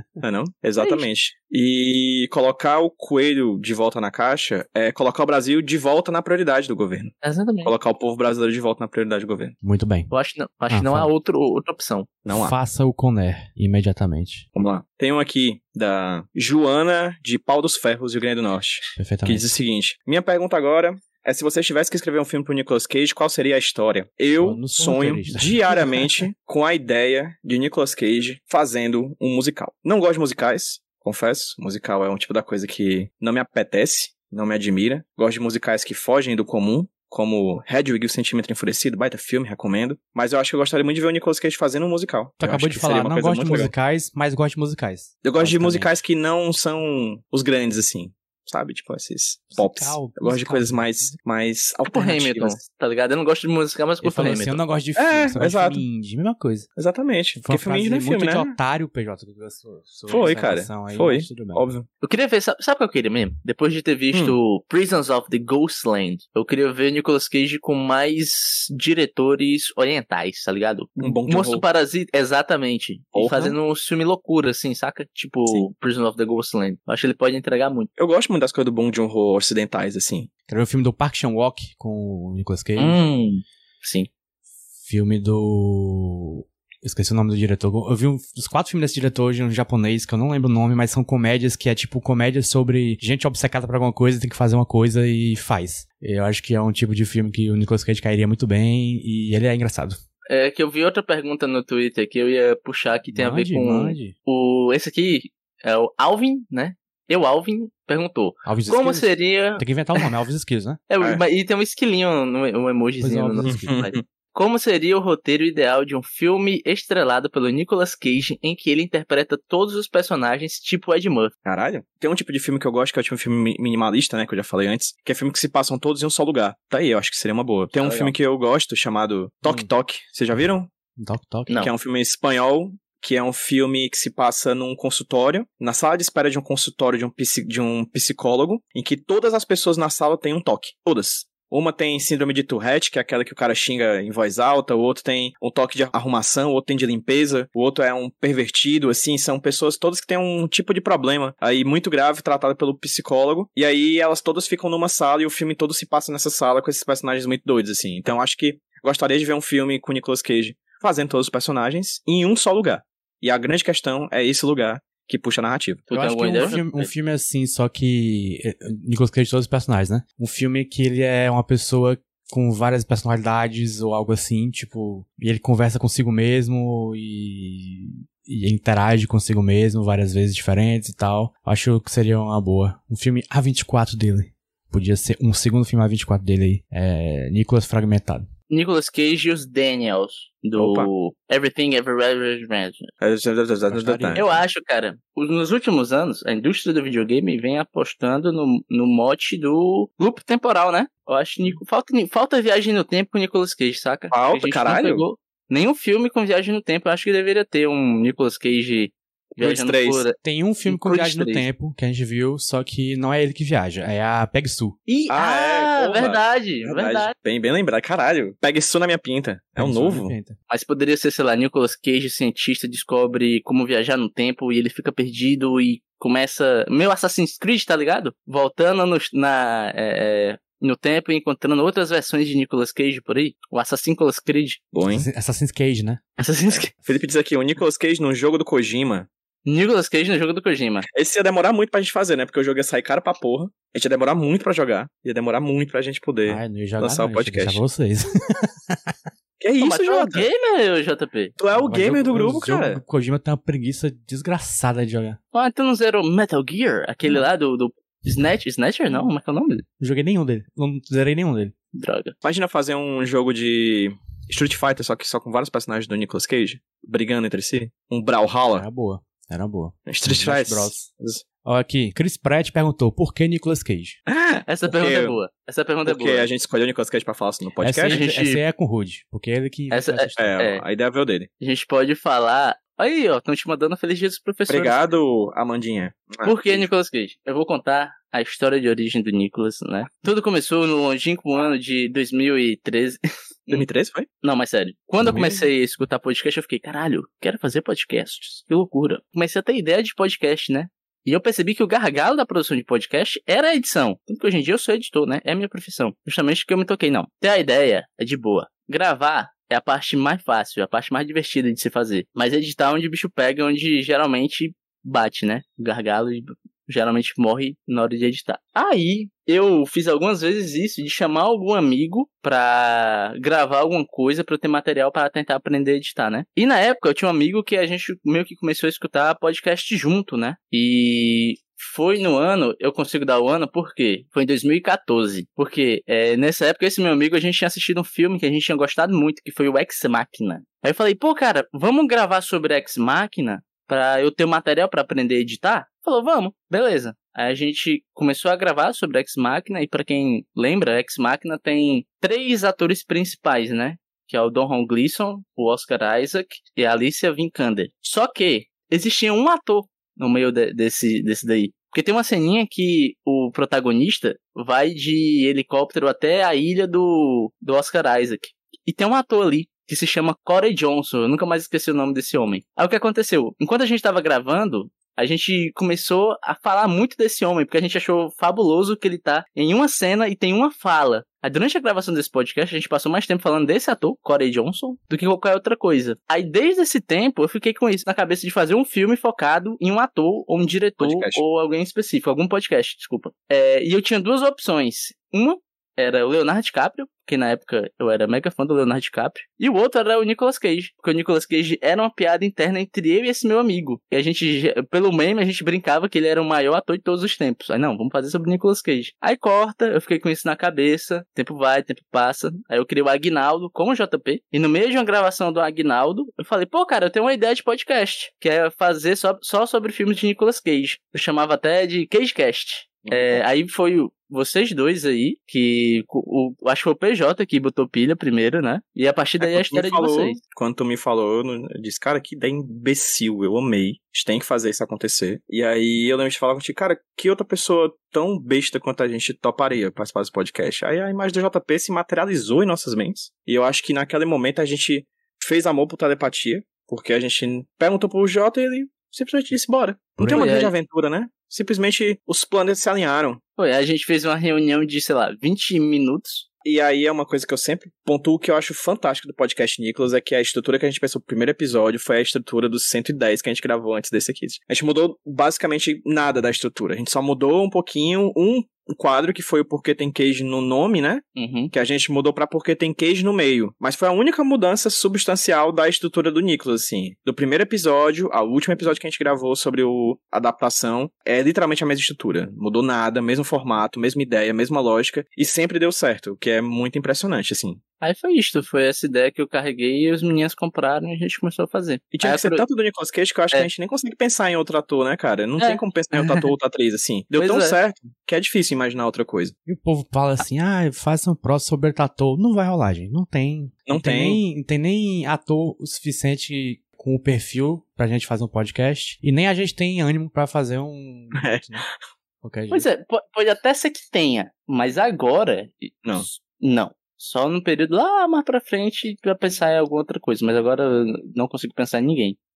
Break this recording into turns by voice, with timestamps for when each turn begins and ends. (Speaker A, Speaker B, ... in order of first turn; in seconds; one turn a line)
Speaker A: 0.2-9.6
Speaker B: 0.8-1.1
Speaker B: 7.2-7.7
Speaker C: 9.6-10.1
Speaker B: 10.1-12.1
Speaker C: 10.7-11.1
Speaker A: 12.2-12.6
Speaker C: 12.3-14.5
Speaker A: 14.6-43.7
Speaker C: 19.0-19.5
Speaker C: 24.4-26.2
Speaker C: 42.4-45.9
Speaker A: 45.2-52.6
Speaker C: 49.5-51.2
Speaker B: 51.9-54.6
Speaker C: 54.0-56.7
Speaker A: 55.0-55.8
Speaker A: 56.8-58.5
Speaker C: 57.4-61.7
Speaker A: 60.1-61.9
Speaker B: 62.0-77.9
Speaker A: 71.0-71.6
Speaker A: 73.1-73.6
Speaker A: 78.0-80.3
Speaker C: 80.5-83.0
Speaker B: 82.8-84.1
Speaker C: 84.8-100.0
Speaker B: 100.3-109.6
Speaker C: 103.1-104.2
Speaker C: 108.4-110.8
Speaker B: 110.9-121.3
Speaker C: 113.0-113.7
Speaker A: 113.4-114.0
Speaker A: 121.5-130.7
Speaker B: 127.8-128.1
Speaker C: 129.4-129.7
Speaker C: 131.0-131.6
Speaker B: 131.5-131.7
Speaker A: 131.6-165.8
Speaker B: 165.9-166.9
Speaker C: 165.9-188.3
Speaker B: 188.5-192.9
Speaker A: 190.6-190.9
Speaker A: 193.0-194.3
Speaker C: 193.7-194.4
Speaker B: 194.2-211.5
Speaker A: 204.1-205.1
Speaker A: 209.4-210.1
Speaker C: 210.2-214.8
Speaker B: 214.9-217.1
Speaker A: 215.1-220.1
Speaker C: 219.6-220.4
Speaker B: 220.5-234.6
Speaker A: 234.7-235.1
Speaker C: 234.9-236.0
Speaker B: 236.2-236.7
Speaker A: 236.5-239.1
Speaker B: 239.4-240.9
Speaker A: 240.9-247.6
Speaker C: 246.3-248.9
Speaker A: 249.4-250.3
Speaker B: 249.6-251.3
Speaker A: 251.4-252.8
Speaker C: 251.5-255.2
Speaker B: 255.3-259.6
Speaker C: 259.8-261.5
Speaker B: 261.7-262.1
Speaker A: 262.2-268.7
Speaker C: 268.5-270.9
Speaker A: 269.9-271.2
Speaker C: 271.4-274.0
Speaker A: 274.1-275.2
Speaker B: 274.5-276.3
Speaker A: 275.9-278.0
Speaker C: 277.6-280.4
Speaker B: 277.9-278.4
Speaker B: 279.7-280.6
Speaker A: 280.2-281.3
Speaker B: 281.4-284.8
Speaker A: 284.5-286.7
Speaker B: 286.2-293.7
Speaker A: 293.5-294.1
Speaker B: 294.2-430.2
Speaker A: 295.0-295.4
Speaker A: 390.8-391.2
Speaker A: 422.8-423.2
Speaker A: 429.2-453.2
Speaker C: 450.0-450.3
Speaker B: 450.1-450.5
Speaker B: 453.4-456.3
Speaker A: 456.4-487.6
Speaker B: 471.2-471.5
Speaker B: 487.8-492.5
Speaker A: 491.9-499.3
Speaker B: 495.4-496.3
Speaker B: 497.1-497.6
Speaker C: 499.5-511.7
Speaker A: 503.7-504.2
Speaker A: 511.2-511.7
Speaker C: 512.2-512.7
Speaker B: 512.5-522.2